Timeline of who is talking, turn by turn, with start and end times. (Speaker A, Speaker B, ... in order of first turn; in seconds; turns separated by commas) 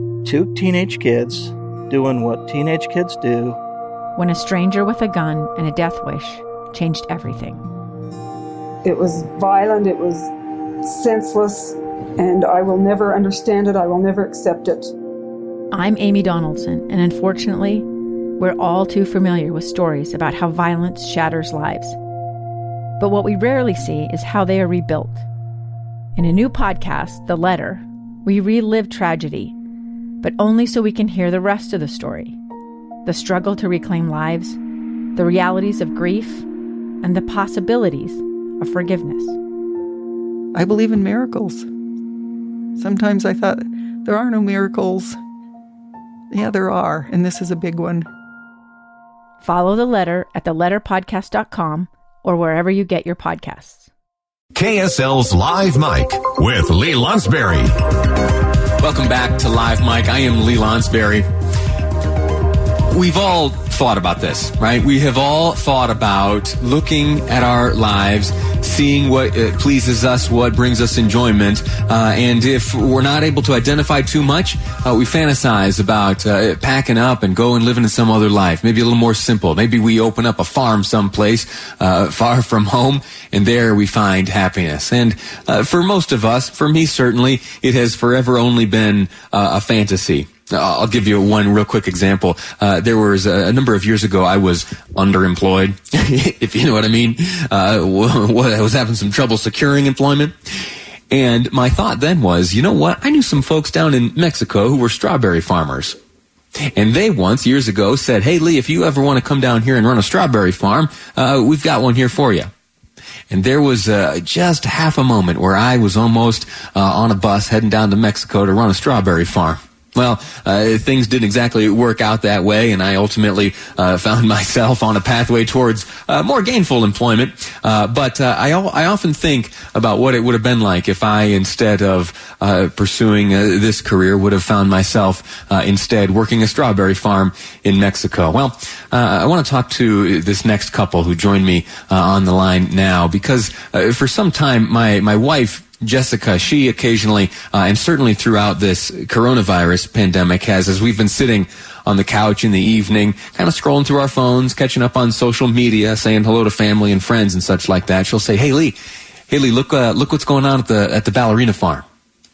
Speaker A: 0.2-3.6, Speaker B: 4.2-7.6, Speaker C: 8.8-10.3, Speaker C: 10.8-14.9, Speaker B: 15.7-17.9, Speaker B: 18.4-22.0, Speaker B: 23.0-25.2, Speaker B: 26.1-29.6, Speaker B: 30.2-32.4, Speaker B: 33.0-34.6, Speaker B: 35.1-36.5, Speaker B: 37.0-39.4, Speaker D: 40.5-41.7, Speaker D: 42.8-45.2, Speaker D: 46.3-48.1, Speaker B: 49.4-53.9, Speaker E: 54.5-57.7, Speaker F: 58.8-61.2, Speaker F: 62.9-100.3, Speaker F: 101.1-106.0, Speaker F: 106.7-112.5, Speaker F: 113.3-158.8, Speaker F: 159.3-161.8